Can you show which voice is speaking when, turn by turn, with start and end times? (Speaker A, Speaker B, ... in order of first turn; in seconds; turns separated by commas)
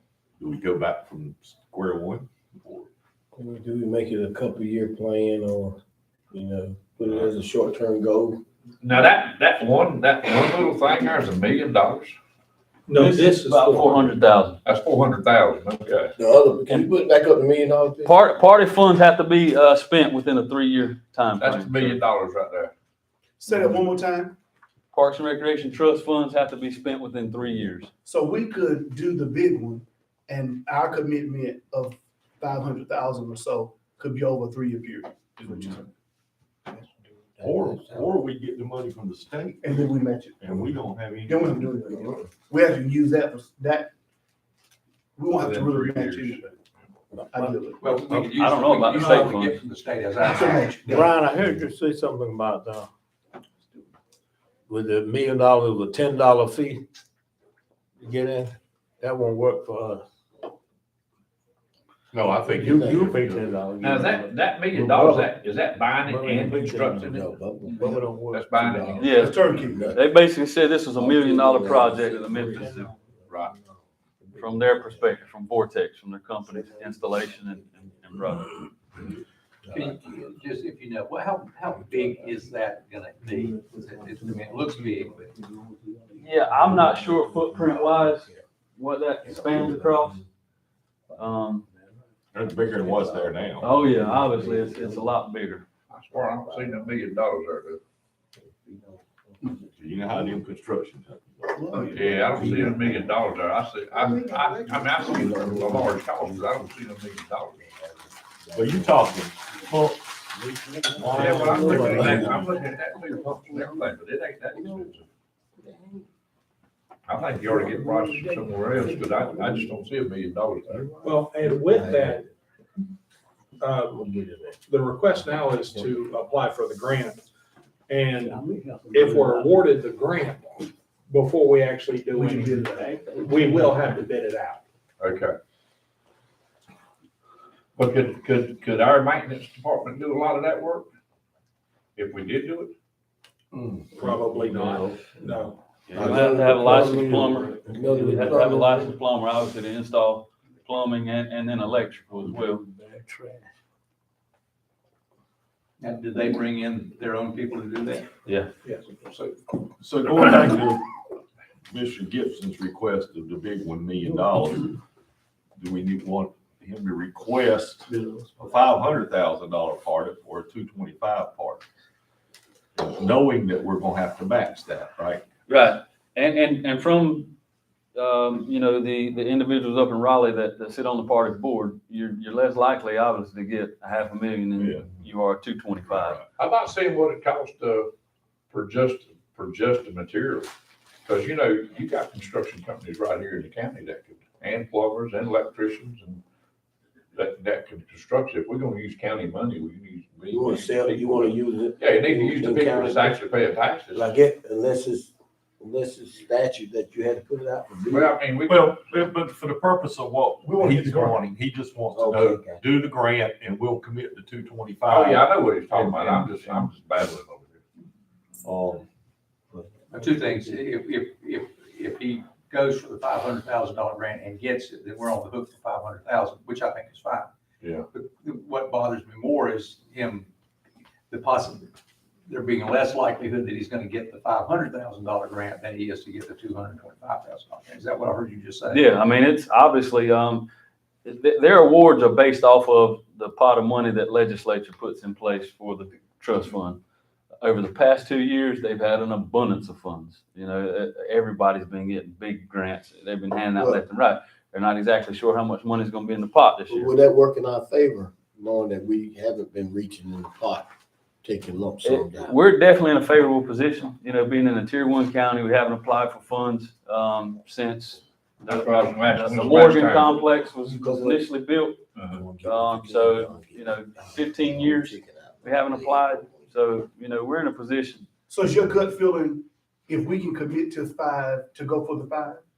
Speaker A: 0.4-2.8, Speaker B: 3.3-5.8, Speaker B: 6.3-8.4, Speaker C: 8.8-12.1, Speaker D: 12.9-14.1, Speaker E: 13.0-14.6, Speaker C: 14.7-16.1, Speaker B: 16.2-18.2, Speaker E: 16.7-16.9, Speaker E: 18.0-22.0, Speaker C: 21.4-22.7, Speaker F: 23.4-24.4, Speaker E: 24.9-27.9, Speaker F: 28.0-35.8, Speaker A: 35.4-35.8, Speaker B: 37.3-38.1, Speaker A: 37.4-41.6, Speaker F: 39.6-40.6, Speaker F: 41.2-43.9, Speaker B: 41.9-42.2, Speaker F: 45.1-46.5, Speaker C: 45.3-46.5, Speaker F: 47.2-47.9, Speaker G: 47.8-51.0, Speaker E: 48.2-49.6, Speaker F: 50.2-51.1, Speaker H: 50.8-52.9, Speaker H: 54.7-56.8, Speaker H: 58.0-60.0, Speaker H: 62.1-65.3, Speaker B: 62.4-63.5, Speaker C: 63.8-67.3, Speaker H: 66.0-67.0, Speaker B: 67.0-68.0, Speaker H: 67.8-69.1, Speaker C: 68.3-69.3, Speaker B: 68.7-70.0, Speaker E: 69.0-72.9, Speaker F: 69.1-69.9, Speaker B: 70.9-75.2, Speaker C: 73.3-73.5, Speaker E: 74.3-78.7, Speaker B: 76.5-77.6, Speaker G: 79.7-85.4, Speaker E: 86.2-90.2, Speaker B: 86.8-88.4, Speaker B: 89.2-90.2, Speaker E: 91.1-91.7, Speaker A: 92.3-93.7, Speaker B: 92.6-95.1, Speaker E: 93.6-95.6, Speaker C: 95.9-97.8, Speaker B: 96.4-96.9, Speaker B: 98.6-99.6, Speaker A: 99.8-102.0, Speaker F: 101.5-103.0, Speaker C: 101.9-107.6, Speaker B: 102.4-103.1, Speaker F: 104.0-105.3, Speaker B: 104.9-106.8, Speaker B: 107.6-109.2, Speaker A: 108.5-110.0, Speaker B: 110.3-112.7, Speaker A: 111.0-112.4, Speaker C: 111.0-115.0, Speaker H: 111.2-112.3, Speaker B: 113.3-113.8, Speaker B: 114.5-114.9, Speaker B: 115.6-116.0, Speaker C: 117.1-121.0, Speaker B: 118.7-119.6, Speaker B: 120.7-122.2, Speaker D: 121.0-122.2, Speaker D: 123.6-124.1, Speaker B: 123.9-124.5, Speaker D: 124.7-127.2, Speaker D: 127.9-134.6, Speaker F: 132.1-132.7, Speaker C: 135.0-135.3, Speaker C: 137.8-140.9, Speaker C: 141.9-142.7, Speaker D: 143.9-145.6, Speaker E: 145.9-152.6, Speaker B: 145.9-149.0, Speaker H: 152.4-153.4, Speaker G: 155.8-158.1, Speaker E: 158.2-158.5, Speaker A: 159.8-160.8, Speaker A: 161.7-164.8, Speaker A: 165.6-171.6, Speaker A: 172.8-175.2, Speaker E: 175.5-177.3, Speaker E: 177.9-186.2, Speaker A: 184.6-184.9, Speaker A: 185.9-186.2, Speaker C: 186.3-187.9, Speaker C: 188.5-190.5, Speaker C: 191.1-196.2, Speaker C: 197.1-204.1, Speaker B: 200.3-203.2, Speaker B: 203.9-208.2, Speaker C: 207.9-208.8, Speaker A: 208.5-216.7, Speaker F: 210.4-211.2, Speaker B: 211.9-212.6, Speaker C: 214.9-217.6, Speaker A: 218.4-218.8, Speaker G: 219.9-227.3, Speaker C: 227.6-227.8, Speaker G: 227.9-230.3, Speaker G: 231.1-231.7, Speaker G: 232.2-238.8, Speaker E: 238.7-240.5, Speaker E: 241.0-246.8, Speaker E: 247.4-256.9, Speaker B: 253.5-253.8, Speaker B: 256.7-260.7, Speaker B: 261.2-262.4, Speaker E: 261.8-271.9, Speaker C: 268.5-270.1, Speaker B: 270.6-271.3, Speaker C: 272.0-272.2, Speaker B: 272.0-276.5, Speaker E: 272.4-278.1, Speaker F: 278.3-282.4